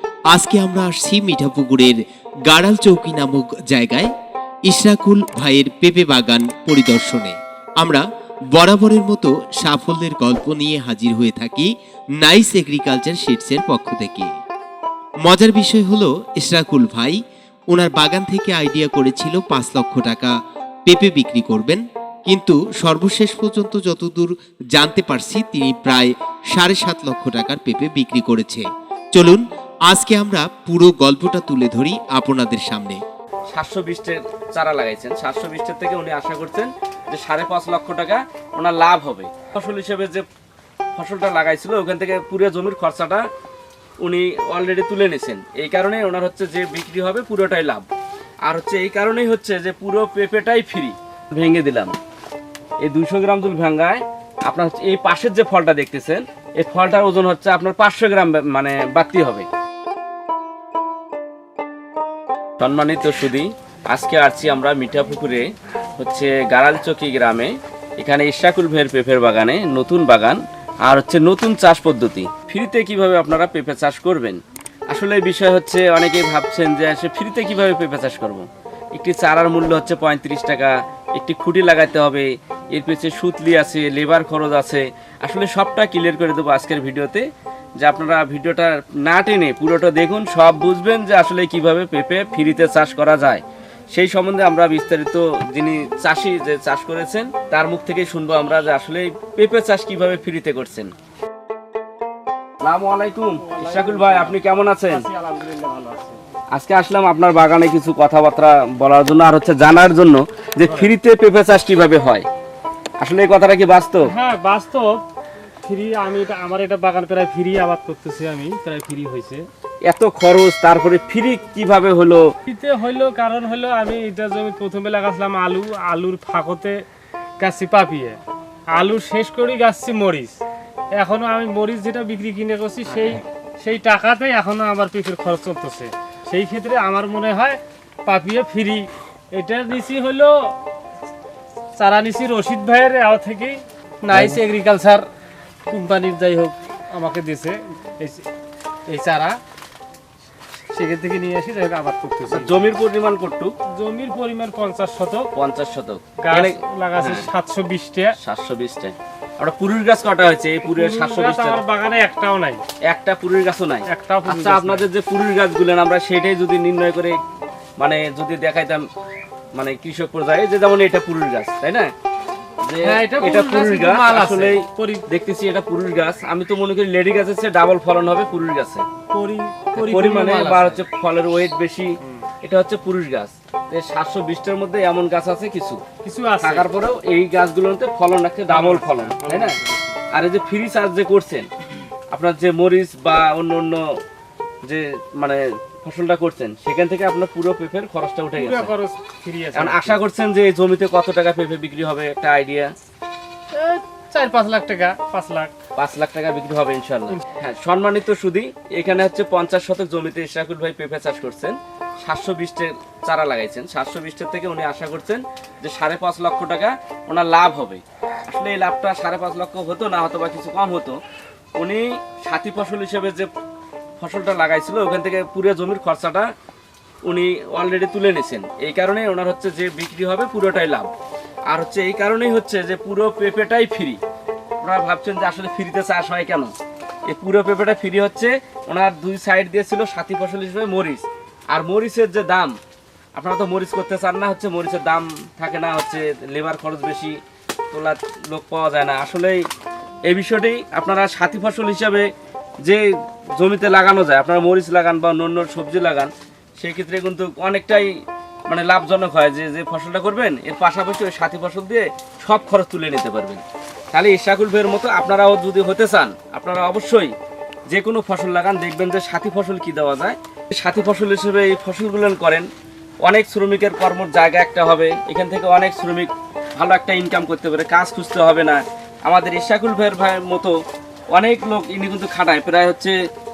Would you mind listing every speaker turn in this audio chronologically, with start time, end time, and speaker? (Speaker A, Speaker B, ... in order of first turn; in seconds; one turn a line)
Speaker A: 0.3-4.1
Speaker A: 4.7-8.0
Speaker A: 8.6-11.7
Speaker A: 12.2-14.3
Speaker A: 15.2-17.2
Speaker A: 17.7-20.3
Speaker A: 20.9-33.0
Speaker B: 33.5-40.3
Speaker B: 41.0-43.3
Speaker B: 44.0-47.9
Speaker B: 48.5-51.9
Speaker B: 52.8-59.5
Speaker B: 62.6-65.5
Speaker B: 66.0-87.3
Speaker B: 87.8-100.9
Speaker B: 102.6-105.1
Speaker C: 103.4-104.4
Speaker C: 104.9-106.2
Speaker B: 106.5-112.3
Speaker B: 113.0-114.1
Speaker C: 114.1-115.0
Speaker C: 115.7-119.5
Speaker B: 119.8-122.3
Speaker C: 122.5-126.8
Speaker C: 127.4-128.2
Speaker C: 128.7-130.4
Speaker C: 130.9-140.3
Speaker B: 132.9-133.2
Speaker C: 141.8-145.0
Speaker B: 144.1-144.4
Speaker C: 145.7-148.3
Speaker C: 148.9-149.4
Speaker C: 150.7-152.5
Speaker B: 152.3-153.5
Speaker C: 153.8-155.3
Speaker B: 155.3-157.3
Speaker C: 156.2-158.1
Speaker B: 158.2-161.6
Speaker C: 160.7-162.6
Speaker B: 162.9-167.2
Speaker C: 163.9-164.8
Speaker B: 167.8-168.8
Speaker B: 169.6-171.9
Speaker B: 172.6-178.8
Speaker C: 172.8-175.0
Speaker C: 179.1-180.8
Speaker B: 179.8-185.8
Speaker C: 186.0-186.7
Speaker B: 186.4-189.6
Speaker C: 188.5-189.9
Speaker B: 190.1-191.5
Speaker B: 192.1-193.8
Speaker B: 194.7-198.7
Speaker C: 198.4-200.0
Speaker B: 199.6-202.7
Speaker C: 203.5-205.5
Speaker B: 205.8-221.0
Speaker B: 221.6-223.3
Speaker B: 224.0-226.3
Speaker B: 227.1-230.9
Speaker B: 231.5-234.0
Speaker B: 234.6-236.5
Speaker B: 237.1-242.6
Speaker B: 243.2-247.2
Speaker B: 247.7-249.4
Speaker B: 250.1-252.1
Speaker B: 252.6-267.1
Speaker B: 267.7-272.5
Speaker B: 273.0-280.6
Speaker B: 281.1-282.9